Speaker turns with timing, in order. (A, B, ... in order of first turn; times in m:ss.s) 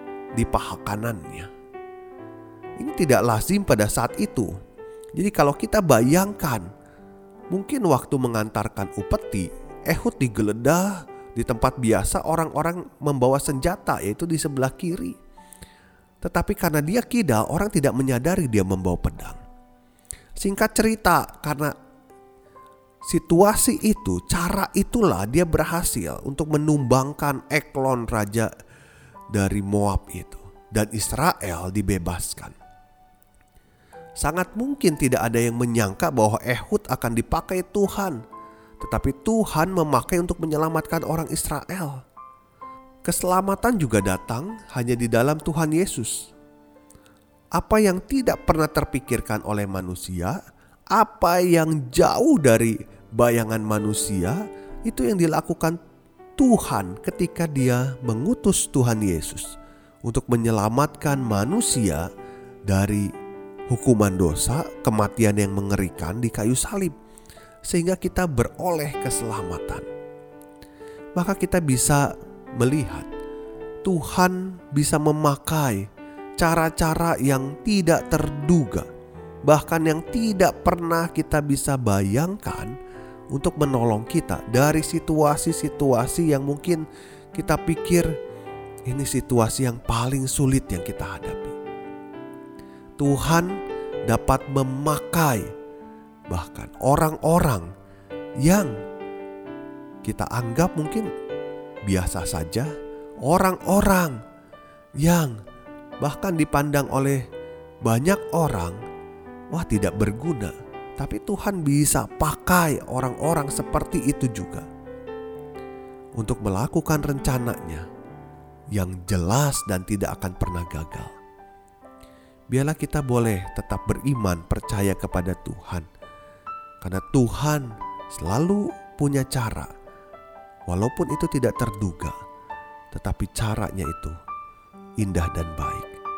0:00.4-0:01.5 A
0:02.8-0:04.5 A
0:05.2-0:06.7 A
0:07.5-0:15.2 A
0:16.2-0:19.4 A
0:20.4-0:21.7 A
0:23.1-0:28.5 A
0:29.3-0:32.6 A
0:34.2-0:38.2 A
0:38.8-0:42.0 A
0:43.0-0:46.1 A
0:47.6-0:50.4 A
0:50.9-0:55.8 A
0:56.4-0:59.5 A
1:00.0-1:02.0 A
1:02.7-1:03.1 A
1:03.7-1:06.9 A
1:07.7-1:09.8 A
1:11.2-1:13.1 A
1:13.8-1:15.9 A
1:16.4-1:18.9 A
1:19.4-1:22.7 A
1:23.3-1:26.8 A
1:27.3-1:28.1 A
1:28.9-1:31.6 A
1:33.0-1:35.5 A
1:36.3-1:37.7 A
1:38.4-1:38.8 A
1:40.0-1:41.1 A
1:41.8-1:42.7 A
1:43.2-1:44.2 A
1:45.0-1:45.4 A
1:46.0-1:47.2 A
1:47.8-1:48.8 A
1:49.5-1:54.6 A
1:56.2-1:57.8 A
1:58.7-2:01.1 A
2:02.5-2:05.8 A
2:06.8-2:09.7 A
2:10.7-2:12.1 A
2:12.9-2:14.2 A
2:15.0-2:16.0 A